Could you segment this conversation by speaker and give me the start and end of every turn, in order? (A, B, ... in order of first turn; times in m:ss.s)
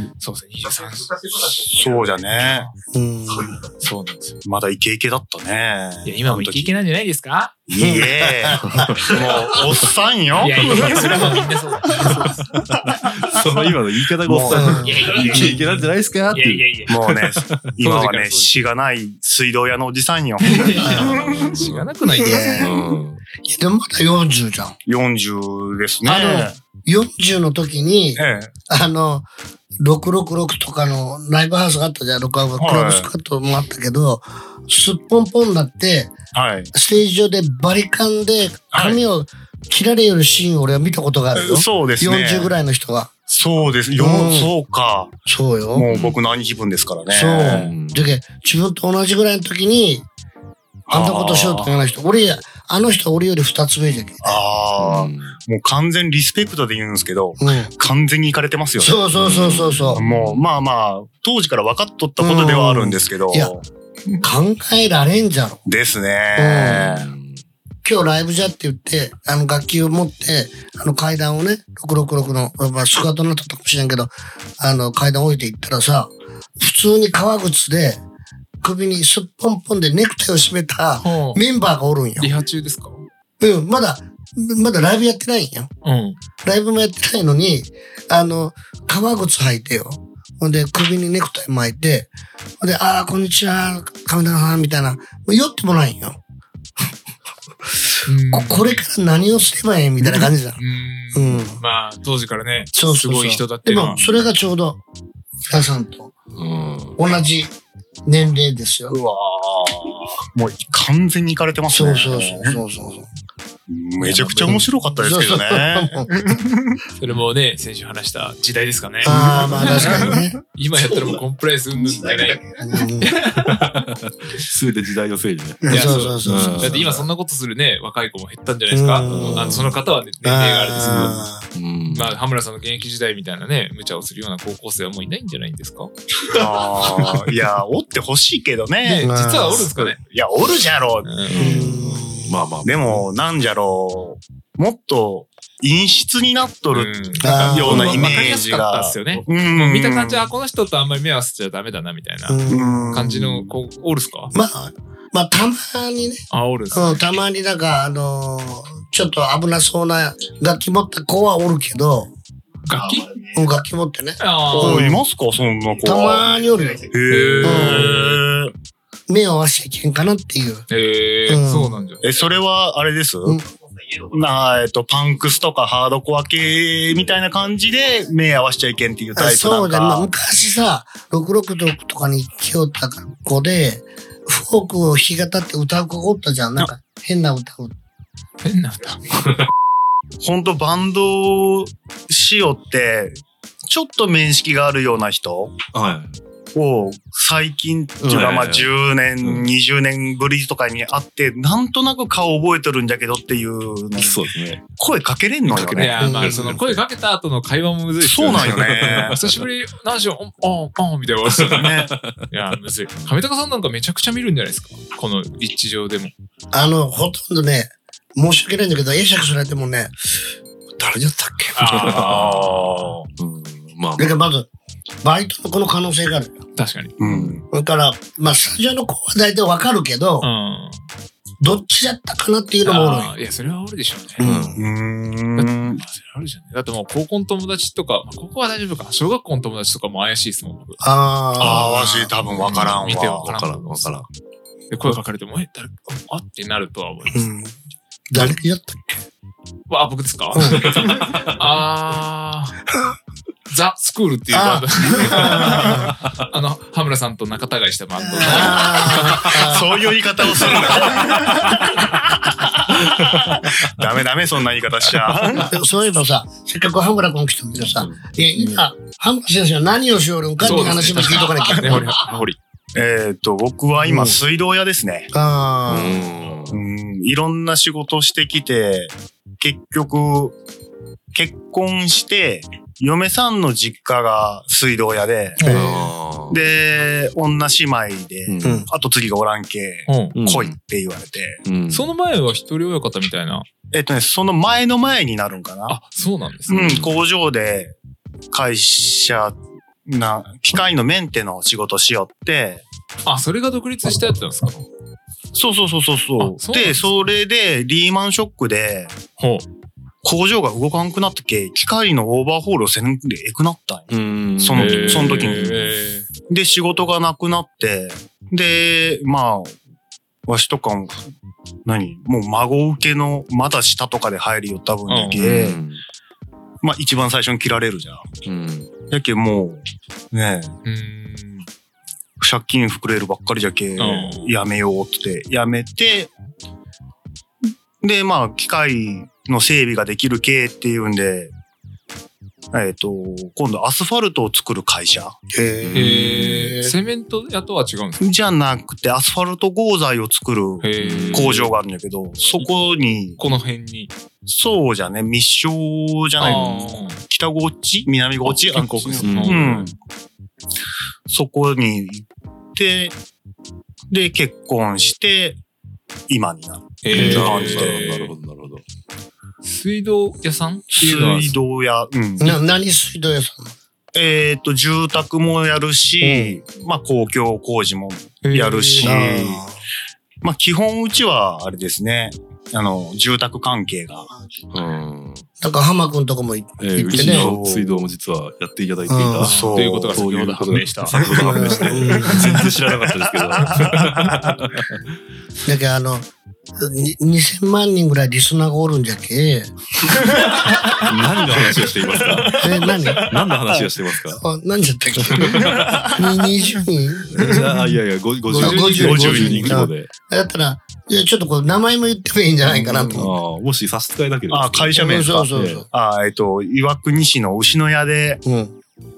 0:00.2-0:01.6 A
0:01.6-0:02.7 B
0:02.3-0:02.7 A
0:02.9-0:03.6 C
0:03.8-0:04.4 A
0:04.4-0:06.7 B
0:06.0-0:07.6 A
0:07.7-0:11.4 B
0:07.8-0:09.0 C
0:08.7-0:09.1 D
0:10.4-0:12.5 A
0:12.9-0:17.6 D
0:14.3-0:15.5 C
0:14.5-0:15.5 B
0:14.8-0:16.9 A
0:16.9-0:21.6 B
0:17.8-0:18.5 A
0:20.4-0:22.8 A
0:20.8-0:21.2 C
0:21.1-0:21.9 D
0:22.1-0:22.8 C
0:22.6-0:23.2 D
0:23.4-0:24.8 C
0:24.9-0:26.6 B
0:26.0-0:29.3 C
0:28.2-0:28.5 B
0:29.8-0:36.2 C
0:32.6-0:33.1 B
0:36.3-0:36.7 B
0:36.7-0:43.1 C
0:38.7-0:39.0 B
0:41.3-0:42.5 B
0:43.3-0:45.1 B
0:43.9-0:44.5 C
0:45.3-0:45.9 C
0:45.7-0:47.7 B
0:45.9-0:46.2 D
0:47.1-0:50.1 C
0:47.5-0:48.0 D
0:50.9-0:51.7 B
0:50.9-0:54.4 C
0:54.2-0:59.1 B
0:54.8-0:55.4 D
0:57.4-0:57.7 C
0:58.8-1:00.0 C
0:59.1-1:00.5 D
1:00.0-1:04.2 B
1:02.2-1:03.5 C
1:04.2-1:05.6 C
1:05.7-1:07.1 B
1:06.4-1:06.9 C
1:06.6-1:07.4 D
1:07.8-1:18.0 C
1:18.6-1:22.3 C
1:21.0-1:21.4 A
1:22.2-1:23.1 A
1:23.4-1:25.7 C
1:25.8-1:26.2 A
1:26.4-1:36.2 C
1:37.7-1:40.6 C
1:38.1-1:38.9 A
1:40.6-1:44.0 A
1:41.1-1:41.6 C
1:42.8-1:44.8 C
1:45.5-1:46.1 C
1:46.4-1:47.0 D
1:47.0-1:47.6 C
1:48.1-1:49.0 C
1:48.9-1:52.6 B
1:51.7-1:53.1 C
1:53.7-1:56.8 B
1:54.0-1:54.6 A
1:54.5-1:56.1 C
1:57.0-2:02.4 A
1:59.0-2:00.4 C
1:59.1-2:00.3 B
2:02.6-2:03.1 C
2:03.0-2:03.6 A
2:03.4-2:07.0 D
2:05.6-2:07.0 C
2:05.7-2:11.3 A
2:08.7-2:09.7 C
2:09.1-2:09.8 D
2:10.2-2:11.4 C
2:10.8-2:12.2 D
2:11.9-2:16.4 A
2:16.3-2:21.1 B
2:18.8-2:20.0 A
2:19.0-2:19.7 C
2:21.0-2:21.6 A
2:21.3-2:23.1 D
2:21.3-2:22.4 C
2:22.6-2:30.3 B
2:26.7-2:34.3 A
2:27.2-2:28.4 C
2:32.3-2:32.9 C
2:32.5-2:33.5 B
2:34.3-2:42.1 C
2:36.3-2:37.1 A
2:42.7-2:43.2 A
2:43.3-2:45.0 C
2:44.2-2:45.0 A
2:44.5-2:46.3 B
2:45.8-2:48.0 C
2:46.8-2:48.5 B
2:47.1-2:48.2 A
2:49.1-2:50.6 C
2:50.7-2:52.0 A
2:51.3-2:51.8 C
2:52.0-2:53.4 B
2:54.1-3:00.1 B
2:59.2-3:07.8 C
3:08.4-3:09.0 A
3:10.2-3:15.6 B
3:15.7-3:16.2 D
3:16.6-3:26.0 B
3:18.0-3:18.7 D
3:19.2-3:19.5 D
3:24.0-3:24.6 D
3:25.5-3:26.8 D
3:25.5-3:31.7 A
3:26.0-3:26.6 C
3:28.0-3:29.2 B
3:28.2-3:29.5 D
3:31.3-3:32.2 D
3:31.4-3:31.9 B
3:32.3-3:36.1 A
3:36.5-3:40.1 C
3:40.8-3:41.9 C
3:41.6-3:43.1 A
3:41.6-3:44.2 D
3:41.9-3:42.9 B
3:44.0-3:44.5 C
3:45.0-3:46.4 C
3:46.6-3:47.0 A
3:47.0-3:47.4 B
3:47.0-3:47.4 D
3:47.5-3:50.3 C
3:50.2-3:50.8 A
3:51.4-3:53.2 C
3:52.6-3:54.3 A
3:54.2-3:54.6 C
3:54.2-3:54.6 D
3:54.6-3:55.8 B
3:55.4-4:00.8 A
4:00.8-4:02.2 C
4:01.4-4:03.3 B
4:02.3-4:04.1 D
4:02.4-4:04.0 A
4:04.7-4:07.3 A
4:07.1-4:07.5 C
4:08.1-4:09.0 C
4:09.7-4:12.6 A
4:10.3-4:10.7 C
4:10.4-4:11.4 D
4:13.5-4:19.4 A
4:14.3-4:16.0 C
4:18.0-4:19.8 C
4:19.2-4:25.5 B
4:22.9-4:23.7 D
4:25.4-4:32.0 C
4:27.6-4:28.0 D
4:30.4-4:32.4 A
4:32.8-4:35.1 B
4:33.8-4:34.2 C
4:35.1-4:36.1 C
4:35.7-4:36.6 D
4:36.5-4:40.4 B
4:41.1-4:45.5 B
4:45.4-4:45.7 A
4:45.4-4:45.7 C
4:45.5-4:46.4 D
4:46.3-4:51.4 B
4:48.3-4:48.7 D
4:48.4-4:48.7 C
4:49.9-4:50.2 A
4:50.2-4:50.6 D
4:51.4-4:51.9 D
4:51.7-4:53.5 A
4:53.7-4:55.8 B
4:55.7-4:56.8 A
4:56.5-4:56.9 D
4:56.5-4:57.8 B
4:58.3-5:02.7 B
5:03.0-5:04.7 A
5:05.3-5:09.0 B
5:06.2-5:06.8 A
5:09.2-5:09.5 A
5:10.0-5:15.6 B
5:13.9-5:15.7 D
5:14.6-5:16.1 A
5:16.3-5:19.6 B
5:20.3-5:21.0 B
5:21.6-5:25.6 B
5:24.9-5:25.3 A
5:25.2-5:25.8 D
5:26.6-5:28.1 B
5:28.2-5:28.7 D
5:28.9-5:30.6 B
5:30.6-5:31.5 A
5:32.2-5:36.1 B
5:33.8-5:34.3 A
5:37.8-5:41.3 B
5:42.5-5:45.2 B
5:45.3-5:46.7 C
5:45.6-5:46.6 D
5:45.7-5:48.2 A
5:48.0-5:53.2 B
5:50.6-5:51.5 A
5:50.8-5:51.5 D
5:53.2-5:53.9 A
5:54.3-5:59.8 B
5:56.2-5:57.0 A
5:56.2-5:56.8 D
5:58.2-5:59.7 A
5:59.0-5:59.6 D
6:01.1-6:03.0 B
6:03.9-6:05.4 B
6:06.1-6:08.0 B
6:06.8-6:08.1 A
6:06.9-6:08.6 D
6:09.4-6:11.4 A
6:10.7-6:12.4 B
6:12.2-6:13.6 C
6:14.0-6:19.4 B
6:16.0-6:16.4 C
6:18.2-6:19.0 A
6:18.8-6:19.6 C
6:20.2-6:24.1 B
6:24.5-6:25.3 D
6:25.4-6:27.4 C
6:26.6-6:34.9 D
6:26.9-6:27.8 B
6:28.9-6:29.6 C
6:29.2-6:30.1 B
6:29.6-6:32.4 A
6:31.0-6:32.5 B
6:31.1-6:32.4 C
6:33.6-6:33.9 B
6:35.4-6:39.6 C
6:40.2-6:40.8 B
6:40.8-6:42.4 D
6:42.3-6:43.2 B
6:42.4-6:43.1 C
6:43.0-6:44.2 D
6:44.1-6:47.4 C
6:45.2-6:45.9 D
6:45.2-6:46.0 B
6:47.1-6:49.9 D
6:47.2-6:47.5 B
6:48.3-6:53.1 C
6:48.4-6:49.6 B
6:48.4-6:49.0 A
6:52.5-6:53.1 B
6:53.0-6:55.6 D
6:54.3-6:58.2 B
6:54.8-6:55.7 C
6:58.2-6:58.6 C